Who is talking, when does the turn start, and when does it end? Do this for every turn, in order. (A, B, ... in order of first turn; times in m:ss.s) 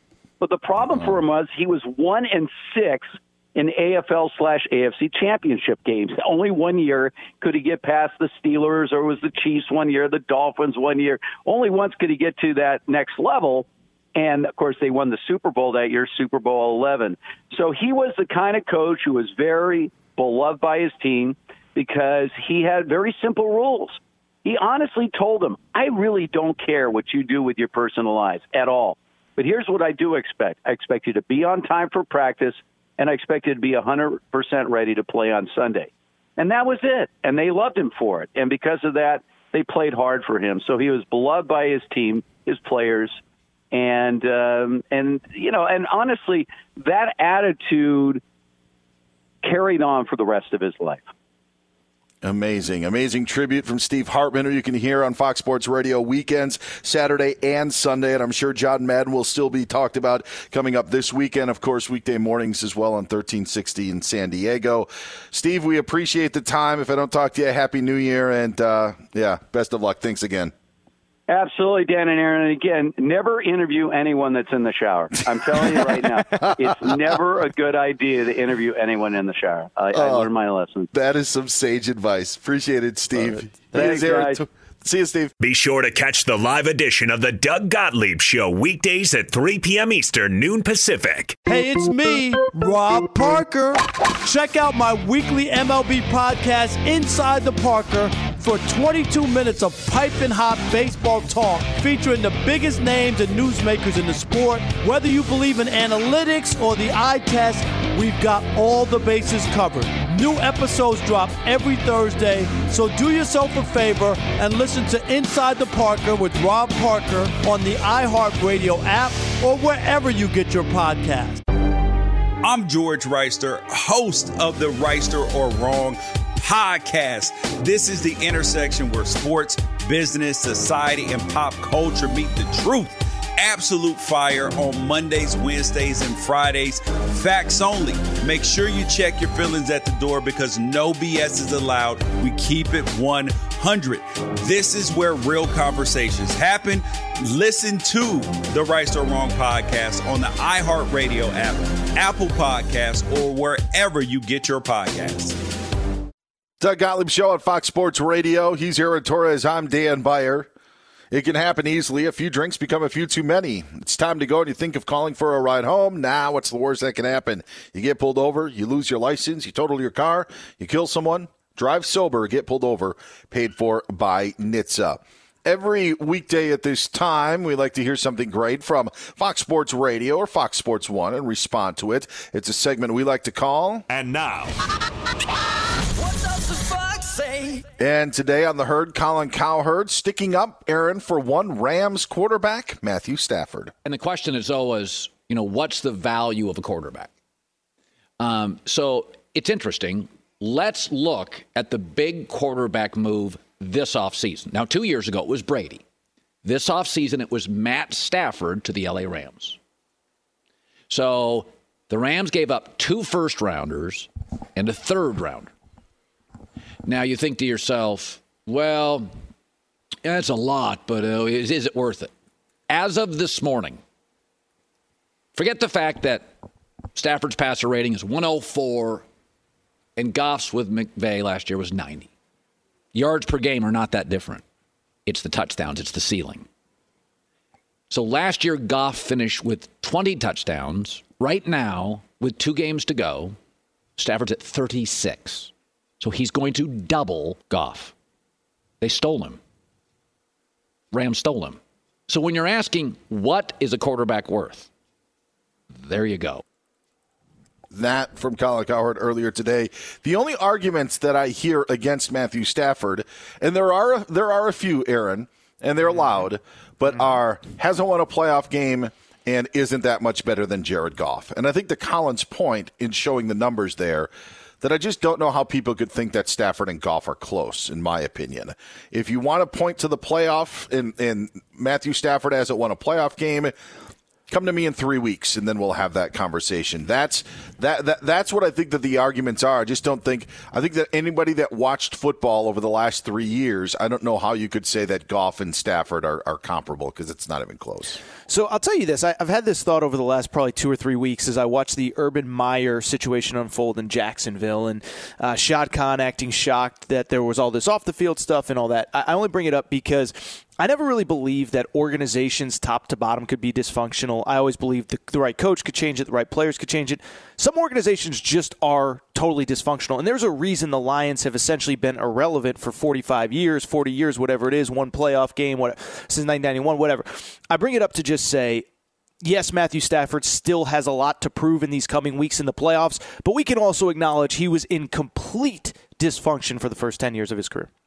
0:00.4-0:43.2 A
0:43.7-0:48.2 A
0:49.4-0:51.1 A
0:52.2-1:10.5 B
1:11.3-1:20.9 A
1:19.9-1:20.3 B
1:20.9-1:25.3 B
1:23.7-1:24.4 A
1:25.4-1:31.4 C
1:31.5-2:01.4 D
2:02.4-2:35.4 E
2:36.6-2:40.5 B
2:41.1-3:03.9 B
3:03.9-3:04.6 C
3:06.1-3:07.6 D
3:07.8-3:13.7 B
3:13.8-3:17.1 F
3:18.2-3:25.8 F
3:26.4-3:29.6 F
3:30.9-3:35.5 F
3:36.8-3:39.1 F
3:40.0-3:42.1 F
3:42.7-3:43.8 F
3:45.4-3:46.3 F
3:47.0-3:49.1 F
3:50.0-3:52.1 F
3:52.9-3:54.4 F
3:55.1-3:56.5 F
3:57.9-4:03.4 F
4:04.0-4:07.9 F
4:08.8-4:09.4 F
4:10.9-4:14.7 F
4:15.7-4:16.4 F
4:17.7-4:34.1 B
4:34.6-4:43.5 B
4:44.3-4:58.0 B
4:58.3-5:28.6 G
5:29.2-5:37.7 G